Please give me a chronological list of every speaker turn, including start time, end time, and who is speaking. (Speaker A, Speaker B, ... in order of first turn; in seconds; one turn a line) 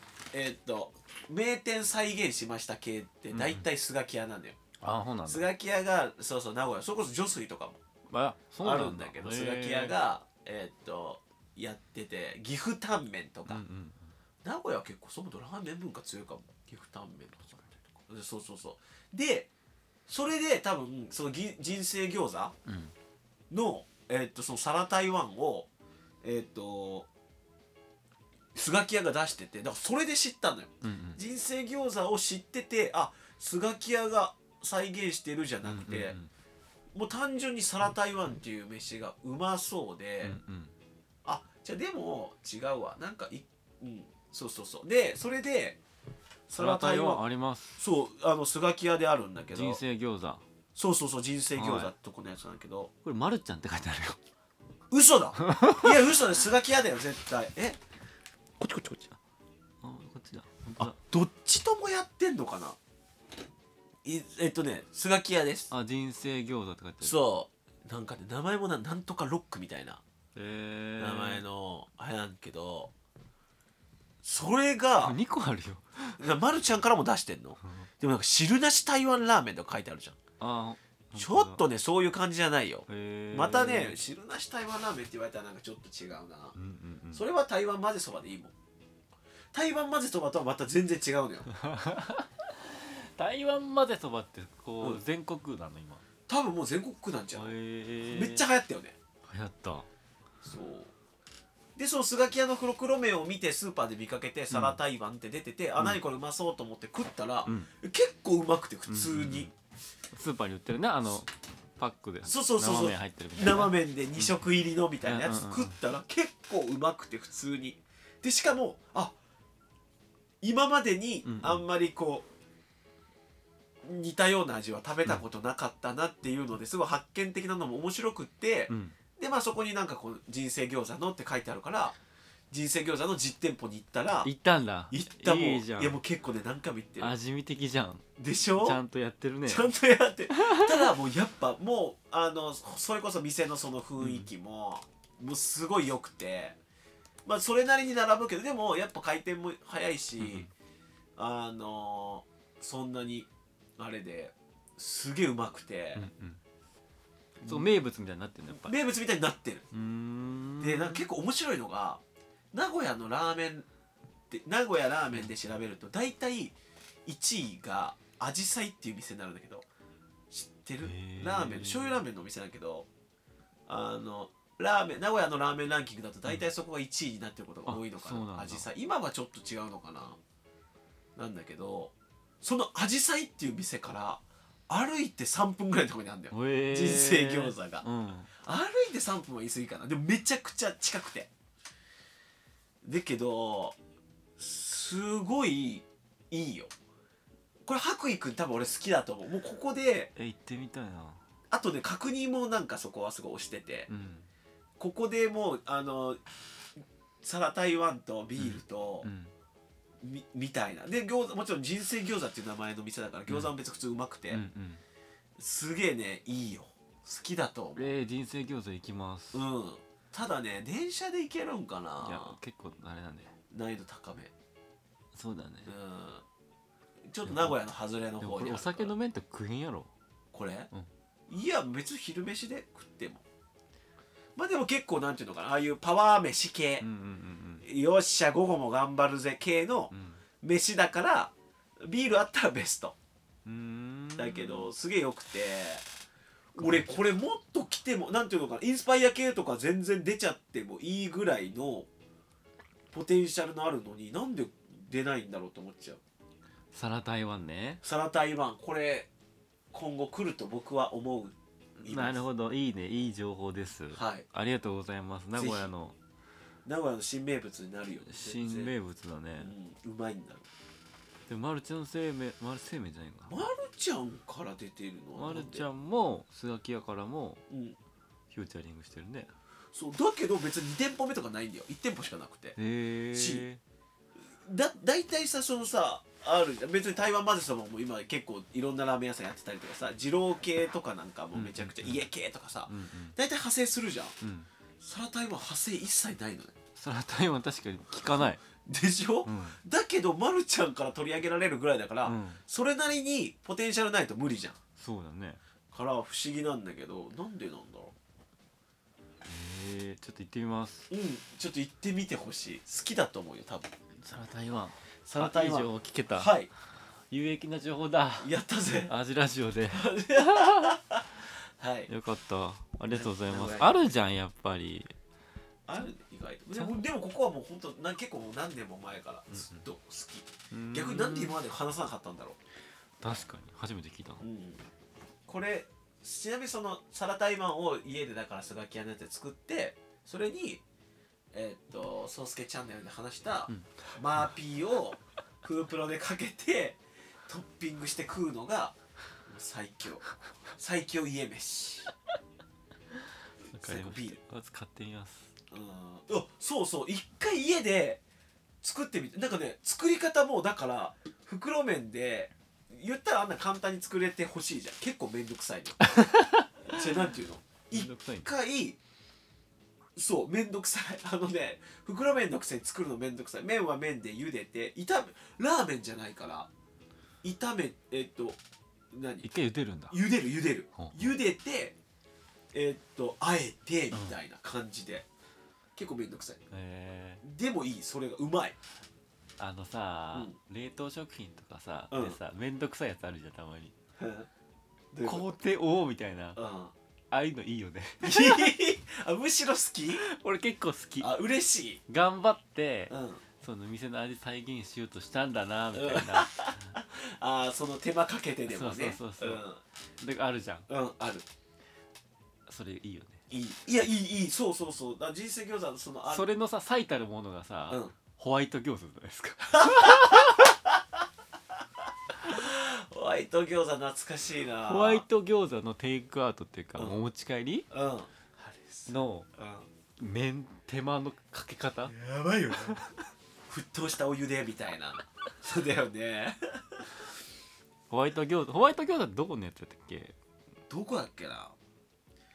Speaker A: 0.3-4.6
Speaker B: 3.3-3.7
Speaker B: 4.8-5.5
Speaker A: 5.3-7.8
Speaker B: 8.1-9.9
Speaker A: 8.6-13.6
Speaker B: 13.5-14.1
Speaker A: 14.4-19.5
Speaker A: 20.1-22.6
Speaker B: 22.6-22.9
Speaker A: 23.5-25.7
Speaker A: 26.2-27.1
Speaker A: 28.5-36.1
Speaker B: 30.8-31.2
Speaker B: 35.6-36.3
Speaker A: 36.9-40.4
Speaker B: 40.2-40.7
Speaker A: 41.2-45.8
Speaker A: 46.5-47.2
Speaker B: 46.5-47.8
Speaker A: 47.8-49.8
Speaker B: 49.5-50.4
Speaker A: 50.8-52.9
Speaker B: 51.5-51.9
Speaker B: 53.0-54.2
Speaker A: 54.9-57.8
Speaker B: 55.4-56.1
Speaker A: 58.6-59.1
Speaker B: 59.8-61.0
Speaker A: 60.8-62.8
Speaker A: 64.0-65.7
Speaker B: 65.7-67.2
Speaker A: 67.0-70.0
Speaker B: 70.3-71.4
Speaker A: 71.0-72.9
Speaker A: 74.2-75.2
Speaker B: 75.0-76.2
Speaker A: 76.2-80.2
Speaker B: 77.6-77.9
Speaker B: 80.4-81.6
Speaker A: 81.2-86.5
Speaker B: 82.9-84.0
Speaker B: 86.5-87.2
Speaker A: 87.1-88.5
Speaker A: 89.5-91.5
Speaker B: 91.5-96.0
Speaker A: 96.3-99.0
Speaker B: 97.3-98.4
Speaker B: 99.2-99.9
Speaker A: 100.4-100.9
Speaker A: 101.8-109.5
Speaker B: 104.5-104.8
Speaker B: 107.4-107.7
Speaker B: 108.9-109.5
Speaker B: 110.1-114.3
Speaker A: 112.2-119.1
Speaker B: 115.0-115.8
Speaker A: 120.4-122.2
Speaker B: 121.2-121.6
Speaker A: 123.8-132.0
Speaker B: 128.7-128.9
Speaker A: 132.5-134.3
Speaker B: 134.2-136.0
Speaker A: 134.9-137.1
Speaker B: 137.0-138.1
Speaker A: 138.2-138.8
Speaker B: 138.6-139.7
Speaker A: 139.4-146.6
Speaker B: 140.3-140.9
Speaker B: 144.0-144.3
Speaker A: 147.2-150.5
Speaker B: 150.2-150.5
Speaker A: 151.2-156.0
Speaker B: 155.9-156.4
Speaker A: 157.4-157.7
Speaker B: 157.4-158.7
Speaker A: 158.5-159.7
Speaker B: 159.7-161.1
Speaker A: 160.6-162.0
Speaker A: 162.5-163.7
Speaker A: 164.3-169.7
Speaker A: 170.3-172.9
Speaker B: 170.8-172.0
Speaker A: 173.7-180.2
Speaker B: 177.7-178.7
Speaker A: 181.2-187.8
Speaker B: 186.3-188.3
Speaker A: 188.4-191.3
Speaker A: 192.8-193.8
Speaker A: 194.4-196.7
Speaker A: 197.6-200.1
Speaker B: 200.2-201.2
Speaker A: 201.5-203.9
Speaker B: 203.9-204.3
Speaker A: 204.8-206.2
Speaker A: 207.2-209.1
Speaker B: 208.3-209.3
Speaker A: 210.0-214.4
Speaker B: 214.3-214.8
Speaker A: 215.4-217.9
Speaker B: 217.8-219.4
Speaker A: 219.3-222.3
Speaker B: 222.0-223.3
Speaker A: 223.5-224.3
Speaker B: 225.1-225.7
Speaker A: 225.7-226.2
Speaker A: 227.1-228.9
Speaker B: 227.2-227.6
Speaker B: 228.2-229.9
Speaker A: 230.3-230.7
Speaker A: 231.3-233.2
Speaker A: 234.3-236.8
Speaker B: 236.8-237.7
Speaker A: 237.6-242.9
Speaker B: 239.9-240.2
Speaker B: 243.4-244.7
Speaker A: 244.2-245.8
Speaker A: 246.5-251.9
Speaker B: 246.6-247.0
Speaker A: 252.9-256.0
Speaker B: 256.7-257.8
Speaker A: 257.8-259.1
Speaker A: 259.7-262.2
Speaker B: 261.8-266.0
Speaker A: 263.9-264.2
Speaker A: 265.4-265.7
Speaker A: 266.6-268.7
Speaker B: 268.0-269.5
Speaker A: 269.4-270.5
Speaker B: 271.3-273.4
Speaker A: 273.3-275.6
Speaker B: 275.1-277.4
Speaker A: 277.5-277.8
Speaker B: 278.3-279.3
Speaker A: 279.7-282.6
Speaker B: 282.6-283.6
Speaker A: 283.1-283.4
Speaker A: 284.4-294.1
Speaker B: 291.3-292.1
Speaker B: 292.7-293.1
Speaker B: 294.2-294.5
Speaker A: 294.8-296.5
Speaker B: 296.8-298.4
Speaker A: 298.6-304.6
Speaker B: 299.2-299.6
Speaker B: 302.0-302.4
Speaker B: 304.8-305.4
Speaker A: 305.7-307.9
Speaker B: 309.2-310.9
Speaker A: 310.9-313.7
Speaker B: 314.0-316.3
Speaker A: 315.1-316.5
Speaker B: 317.1-320.8
Speaker A: 318.2-318.9
Speaker A: 319.7-321.9
Speaker B: 321.9-324.9
Speaker A: 322.9-323.7
Speaker A: 325.7-332.4
Speaker B: 329.3-329.6
Speaker B: 330.5-331.4
Speaker B: 333.0-334.2
Speaker A: 334.2-334.6
Speaker A: 335.3-340.6
Speaker A: 341.3-350.0
Speaker B: 343.5-343.9
Speaker A: 350.6-351.9
Speaker B: 353.5-355.3
Speaker A: 353.6-354.2
Speaker A: 355.5-358.0
Speaker A: 358.6-365.9
Speaker B: 365.8-366.8
Speaker A: 366.6-368.8
Speaker B: 367.7-368.3
Speaker A: 369.9-376.5
Speaker A: 377.2-378.4
Speaker A: 378.9-379.3
Speaker B: 379.2-380.0
Speaker A: 379.9-381.8
Speaker B: 380.8-381.1
Speaker A: 382.5-385.1
Speaker B: 383.9-384.2
Speaker A: 385.7-386.4
Speaker B: 386.5-387.2
Speaker A: 387.2-388.6
Speaker B: 389.4-393.7
Speaker A: 391.9-392.2
Speaker A: 394.0-394.3
Speaker A: 394.9-395.2
Speaker B: 395.0-396.4
Speaker A: 396.4-396.7
Speaker B: 397.1-398.5
Speaker A: 398.0-400.0
Speaker B: 400.0-401.1
Speaker A: 401.0-401.8
Speaker B: 401.9-406.8
Speaker A: 402.9-403.2
Speaker A: 405.7-409.6
Speaker B: 408.5-409.4
Speaker B: 410.0-410.7
Speaker A: 410.7-411.2
Speaker B: 412.5-413.2
Speaker A: 413.3-416.2
Speaker B: 416.1-420.6
Speaker A: 419.5-420.8
Speaker A: 422.2-425.0
Speaker B: 424.6-427.7
Speaker A: 427.7-429.7
Speaker B: 428.9-429.3
Speaker B: 430.0-431.9
Speaker A: 431.9-432.8
Speaker B: 432.5-432.9
Speaker A: 433.5-437.1
Speaker B: 437.9-440.1
Speaker A: 440.7-441.5